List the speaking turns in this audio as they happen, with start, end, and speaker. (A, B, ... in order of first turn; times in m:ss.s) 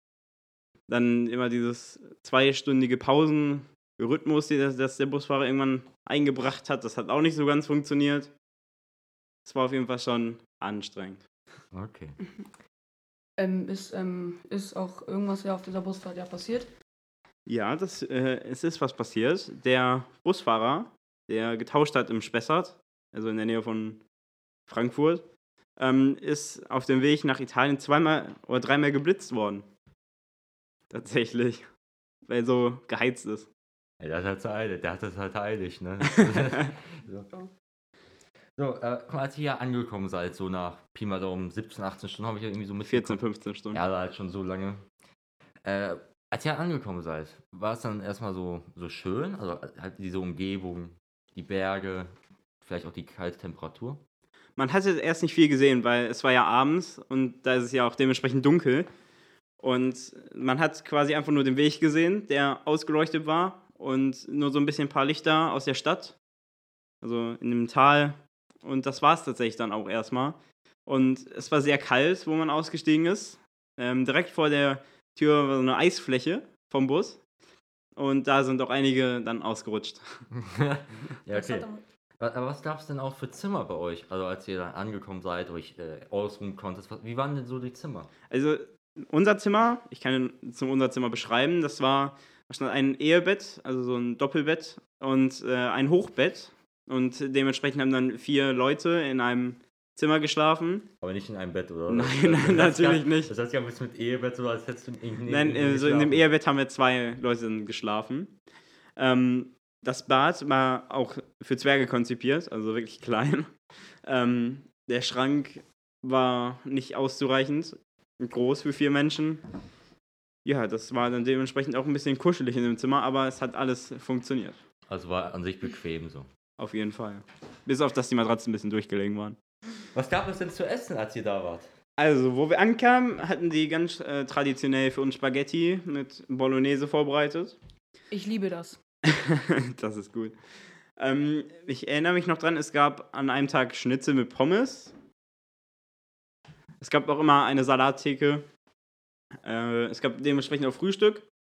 0:00.9-0:08.3 A
0:09.4-0:11.3 A
0:11.7-0:12.2 B
0:13.4-0:16.7 C
0:17.5-0:24.0 A
0:24.7-0:29.7 A
0:30.9-0:31.7 A
0:32.3-0:33.5 A
0:34.0-0:37.3 B
0:38.6-0:43.2 B
0:42.8-0:43.8 A
0:43.7-0:44.8 B
0:45.6-0:54.0 B
0:54.6-0:58.9 A
0:59.6-1:06.2 A
1:07.0-1:17.2 A
1:18.0-1:20.3 A
1:20.3-1:21.7 B
1:21.3-1:21.8 C
1:22.2-1:28.1 B
1:28.3-1:40.9 A
1:41.0-1:46.2 B
1:41.9-1:43.3 A
1:45.3-1:48.4 A
1:49.0-1:59.4 A
2:00.4-2:04.6 A
2:04.9-2:06.3 B
2:06.6-2:09.4 A
2:09.9-2:11.7 B
2:12.0-2:17.6 A
2:18.1-2:18.8 C
2:19.0-2:24.9 A
2:26.8-2:28.4 A
2:29.4-2:31.3 A